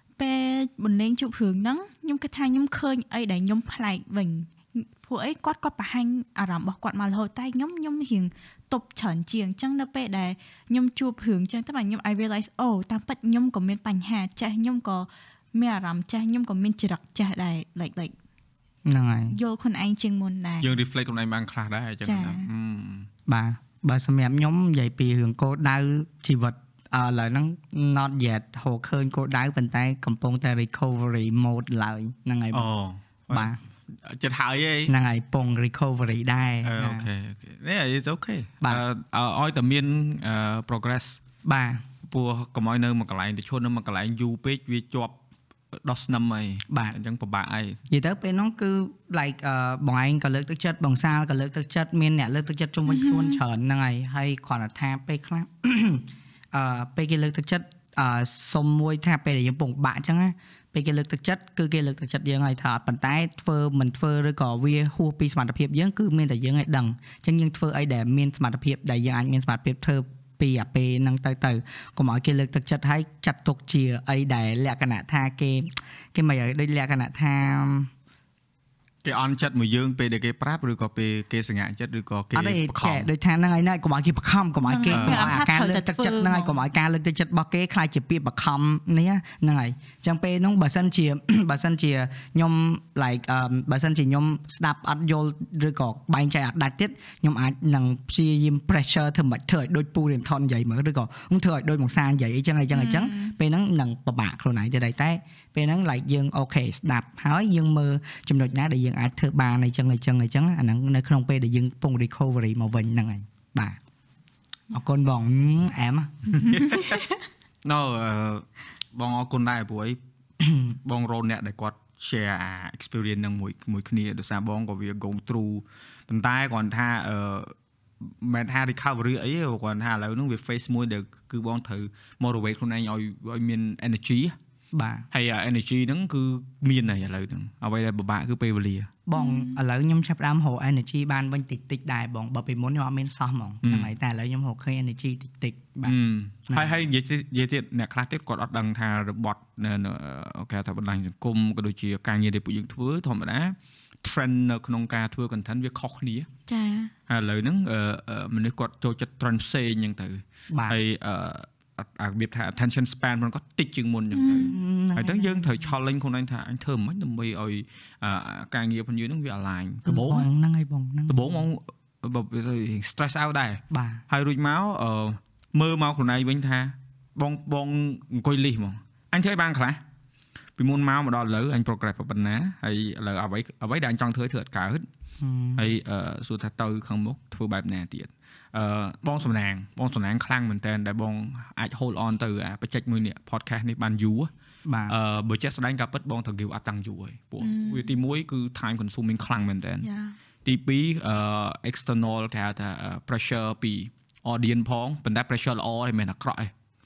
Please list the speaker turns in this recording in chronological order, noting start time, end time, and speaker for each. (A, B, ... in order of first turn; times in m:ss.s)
0:00.2-0:18.1 A
0:18.9-0:19.4 B
0:19.3-0:20.7 A
0:20.6-0:23.1 C
0:22.0-0:22.5 A
0:23.3-0:32.7 B
0:32.5-0:34.9 C
0:33.3-0:33.6 B
0:34.9-0:37.1 B
0:36.6-0:41.2 C
0:41.4-0:41.8 B
0:42.0-0:45.2 C
0:45.7-0:47.8 C
0:46.7-0:47.0 B
0:47.9-1:17.9 B
0:52.9-0:53.4 A
1:19.0-1:23.1 C
1:22.4-1:53.8 B
1:24.7-1:26.6 A
1:24.9-1:25.4 C
1:42.7-1:43.4 A
1:54.7-1:56.4 B
1:56.3-1:57.0 C
1:57.6-2:00.0 C
2:00.4-2:00.8 B
2:00.8-2:14.4 C
2:14.7-2:15.1 B
2:15.1-2:18.9 C
2:19.1-2:26.0 B
2:19.2-2:19.6 A
2:23.6-2:23.9 C
2:25.8-2:36.3 C
2:26.5-2:26.8 B
2:36.5-2:36.9 A
2:37.1-2:50.3 C
2:40.5-2:40.8 B
2:44.1-2:44.5 A
2:44.3-2:45.6 B
2:49.9-2:51.4 B
2:51.1-2:59.8 C
2:53.7-2:54.0 B
3:00.6-3:04.9 C
3:05.2-3:05.6 B
3:05.6-3:14.3 C
3:14.7-3:15.0 B
3:14.9-3:19.9 C
3:17.4-3:17.9 A
3:19.8-3:20.2 A
3:20.4-3:26.5 C